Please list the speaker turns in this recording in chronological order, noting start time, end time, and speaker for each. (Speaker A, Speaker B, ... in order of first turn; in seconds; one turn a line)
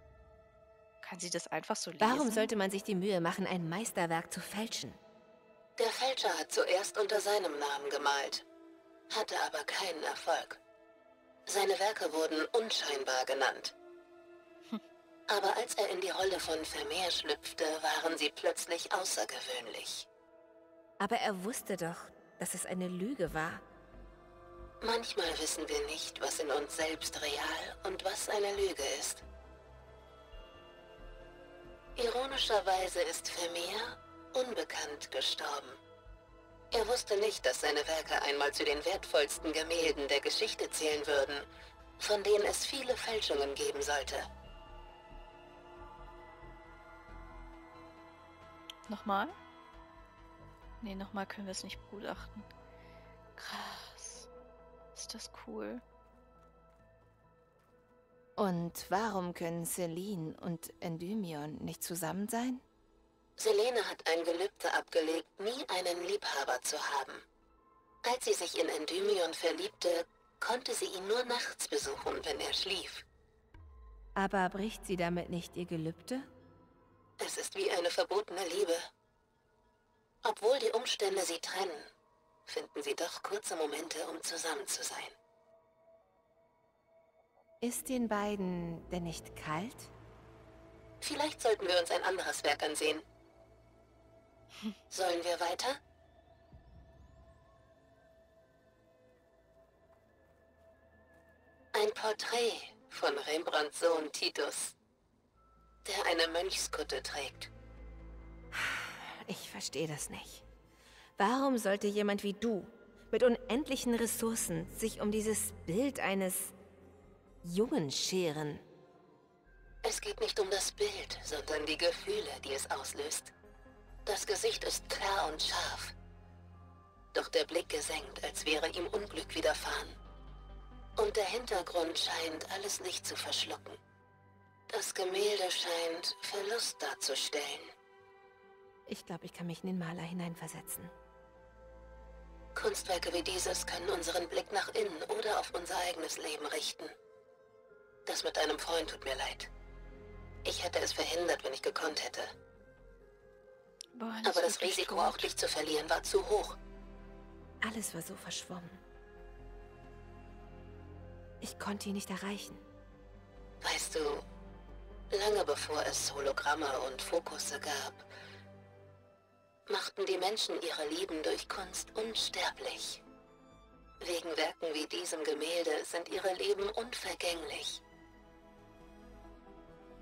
Speaker A: 1.0-2.5
Speaker B: 2.0-5.0
Speaker C: 5.8-8.4
Speaker C: 9.1-10.6
Speaker C: 11.5-13.7
Speaker C: 15.3-20.1
Speaker B: 21.0-23.6
Speaker C: 24.8-29.2
Speaker C: 31.9-35.8
Speaker C: 36.7-41.5
Speaker C: 42.0-44.3
Speaker A: 48.9-49.3
Speaker A: 50.8-52.5
Speaker A: 53.4-54.3
Speaker A: 54.9-55.8
Speaker B: 58.4-62.6
Speaker C: 63.4-67.2
Speaker C: 68.0-73.0
Speaker B: 74.2-76.3
Speaker C: 77.2-78.8
Speaker C: 80.2-81.9
Speaker C: 82.5-85.1
Speaker B: 87.6-89.9
Speaker C: 91.0-93.0
Speaker C: 94.9-95.8
Speaker C: 101.7-104.7
Speaker C: 105.8-107.5
Speaker B: 108.5-110.5
Speaker B: 111.2-116.5
Speaker B: 117.4-118.6
Speaker C: 119.8-123.3
Speaker C: 124.0-125.9
Speaker C: 127.1-129.9
Speaker C: 131.0-133.8
Speaker C: 134.7-137.7
Speaker B: 138.9-140.9
Speaker C: 142.6-146.9
Speaker C: 148.1-149.5
Speaker C: 150.4-152.3
Speaker A: 153.9-155.3
Speaker C: 154.2-156.6
Speaker B: 157.6-158.8
Speaker B: 161.4-162.6
Speaker C: 163.6-164.2
Speaker C: 165.1-168.0
Speaker C: 169.7-173.0
Speaker C: 174.0-177.8